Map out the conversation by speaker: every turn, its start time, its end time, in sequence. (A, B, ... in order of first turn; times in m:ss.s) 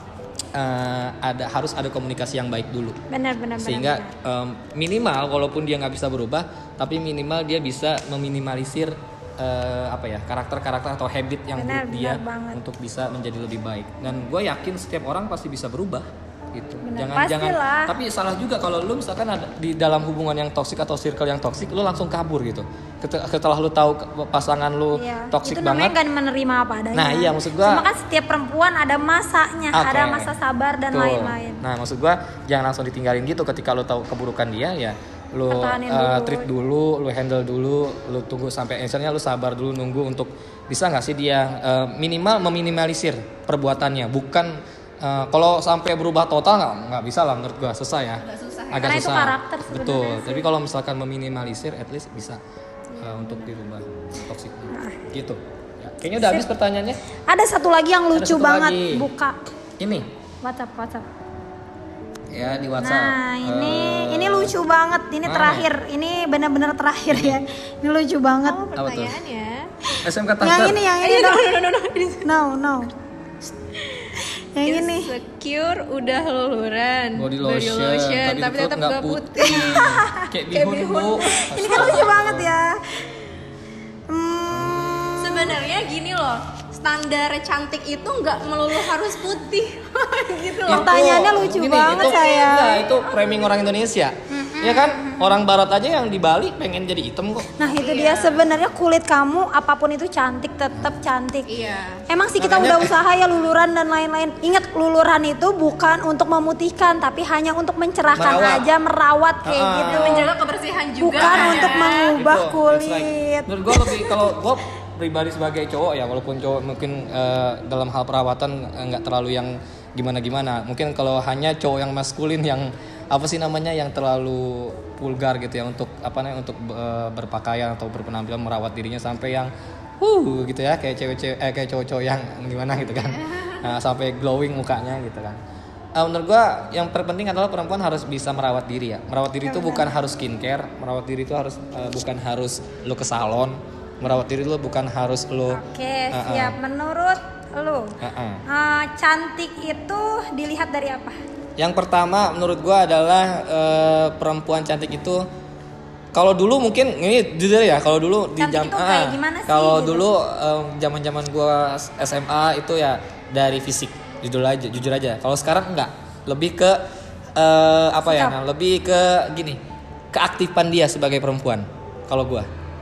0:00.6-0:03.0 A
0:03.1-0:04.2 B
0:03.6-0:26.0 A
0:11.6-0:12.6 B
0:16.8-0:18.0 B
0:25.0-0:31.6 B
0:26.9-0:27.8 A
0:29.7-0:30.4 A
0:30.9-0:52.4 A
0:35.5-0:36.5 B
0:48.2-0:49.2 C
0:48.8-0:50.5 B
0:53.0-0:57.0 A
0:53.0-0:53.4 B
0:54.7-0:55.0 B
0:57.3-0:59.4 B
0:58.1-0:59.1 A
0:59.8-1:00.1 A
1:00.4-1:01.1 B
1:02.3-1:04.6 A
1:02.8-1:08.6 B
1:05.2-1:05.7 A
1:07.1-1:07.4 A
1:08.4-1:09.7 C
1:08.8-1:09.2 A
1:10.0-1:10.8 A
1:10.4-1:11.6 B
1:11.0-1:12.3 C
1:12.2-1:12.9 B
1:13.7-1:22.2 C
1:14.2-1:15.1 B
1:17.2-1:22.5 A
1:19.4-1:20.3 B
1:21.5-1:23.0 B
1:24.1-1:25.6 B
1:24.5-1:25.3 A
1:25.2-1:31.0 C
1:30.7-1:37.5 A
1:30.7-1:32.8 B
1:31.7-1:33.8 C
1:34.3-1:35.4 B
1:37.6-1:41.5 B
1:37.6-1:38.4 C
1:41.5-1:42.0 C
1:42.1-1:50.3 B
1:42.4-1:43.0 A
1:48.2-1:48.7 A
1:49.4-1:50.3 A
1:49.8-1:52.1 C
1:51.0-1:54.3 B
1:51.2-2:15.4 A
2:16.0-2:26.6 A
2:19.4-2:20.0 B
2:25.5-2:28.0 B
2:28.0-2:28.4 A
2:28.5-2:31.2 B
2:31.6-2:35.3 A
2:36.1-2:46.8 A
2:38.4-2:40.1 B
2:47.4-2:49.6 A
2:48.0-2:48.4 B
2:50.1-2:52.5 A